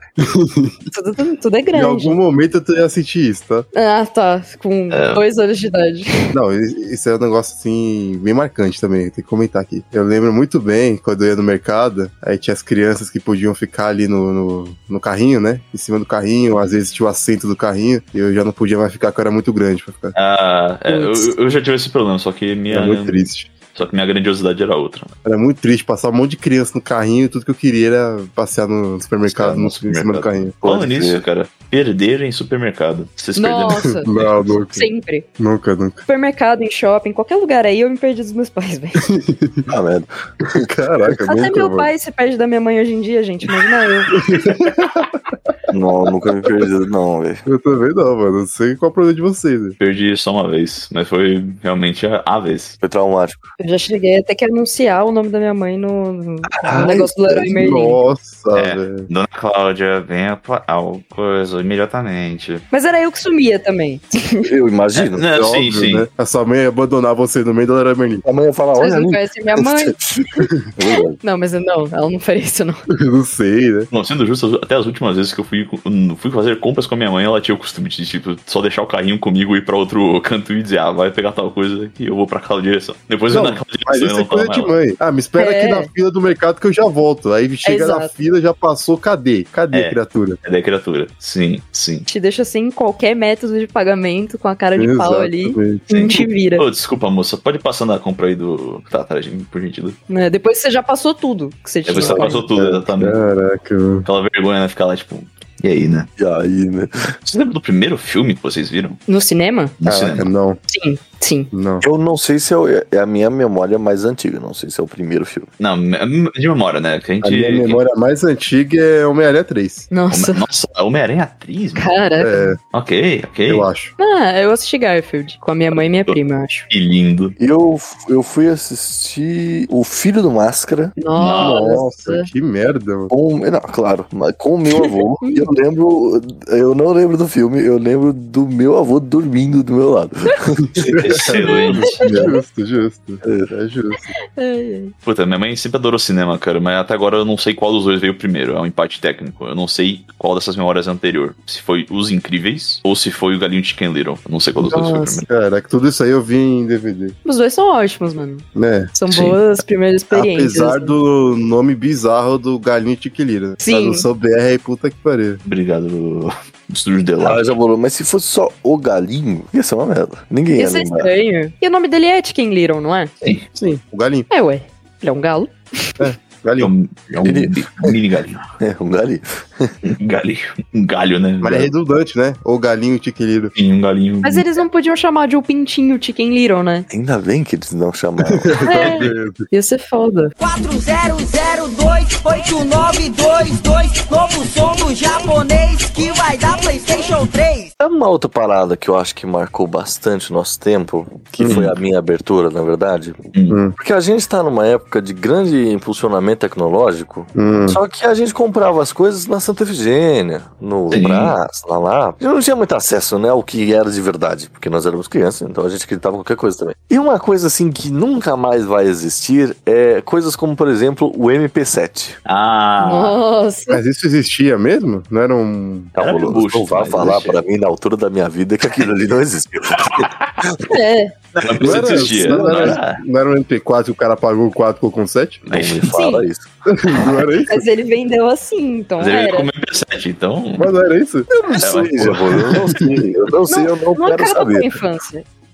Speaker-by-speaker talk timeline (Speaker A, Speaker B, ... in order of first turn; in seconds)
Speaker A: 0.2-0.8, 1.7-3.7, 6.3-20.1, 22.7-23.5, 25.2-30.5, 33.8-36.0, 39.0-39.7, 40.5-41.9, 44.1-45.1, 47.5-49.8, 57.5-59.1, 65.3-68.2, 72.9-73.9, 83.3-90.4, 94.8-95.9, 102.2-104.1, 109.8-110.6, 111.5-111.8, 117.2-119.9, 122.2-122.6, 123.5-123.9, 131.4-133.1, 140.8-144.1, 155.3-157.2, 158.5-158.9, 160.1-165.4, 173.5-174.3, 176.0-176.7, 181.4-183.5, 188.2-189.5, 201.4-201.7, 203.5-203.7, 207.3-207.8, 223.7-225.9, 231.6-235.4, 236.7-237.7, 240.6-241.3, 242.4-242.9
Speaker B: 0.9-2.2, 3.7-6.3, 20.9-21.3, 33.4-34.1, 34.6-35.3, 36.1-39.1, 41.2-44.1, 53.6-58.0, 62.7-64.5, 68.8-70.4, 71.2-72.8, 85.4-85.9, 87.6-88.1, 92.1-96.6, 100.1-102.5, 109.1-109.7, 110.7-111.5, 119.9-120.4, 121.8-122.5, 124.0-126.7, 131.0-132.3, 135.2-135.5, 141.3-142.4, 144.3-144.9, 154.6-155.2, 157.2-160.9, 163.6-164.1, 170.6-173.1, 174.3-176.1, 184.2-186.9, 188.6-190.3, 222.8-223.8, 230.7-231.1, 235.9-236.2, 237.5-239.5, 243.5-245.2
Speaker C: 4.9-5.2, 20.1-25.1, 29.3-34.4, 49.8-52.8, 58.5-62.6, 64.9-66.1, 73.9-84.7, 89.7-92.1, 95.9-100.0, 101.8-103.2, 104.0-106.1, 107.2-109.0, 109.8-110.3, 115.6-117.8, 120.1-121.9, 122.7-123.7, 126.7-127.3, 131.1-131.7, 140.9-142.1, 145.0-155.3, 159.1-159.4, 165.4-167.4, 176.6-178.4, 179.8-181.7, 183.5-184.4, 201.4-201.7, 203.3-203.6, 210.9-211.3, 222.2-223.2, 225.9-227.4, 229.8-230.4, 231.3-233.0, 235.5-235.9, 239.0-240.7, 241.6-242.6
Speaker D: 30.6-31.2, 39.7-40.7, 45.7-47.4, 52.8-53.4, 56.5-57.6, 64.4-65.2, 68.2-70.0, 70.8-71.2, 101.9-102.3, 106.2-107.2, 111.8-115.5, 127.4-131.0, 133.1-141.2, 143.2-143.5, 167.2-171.1, 177.2-177.9, 178.6-179.8, 186.9-188.9, 197.8-203.2, 203.8-222.2, 225.9-230.6, 231.4-232.8, 235.5-237.3, 241.3-244.8
Speaker E: 190.4-197.7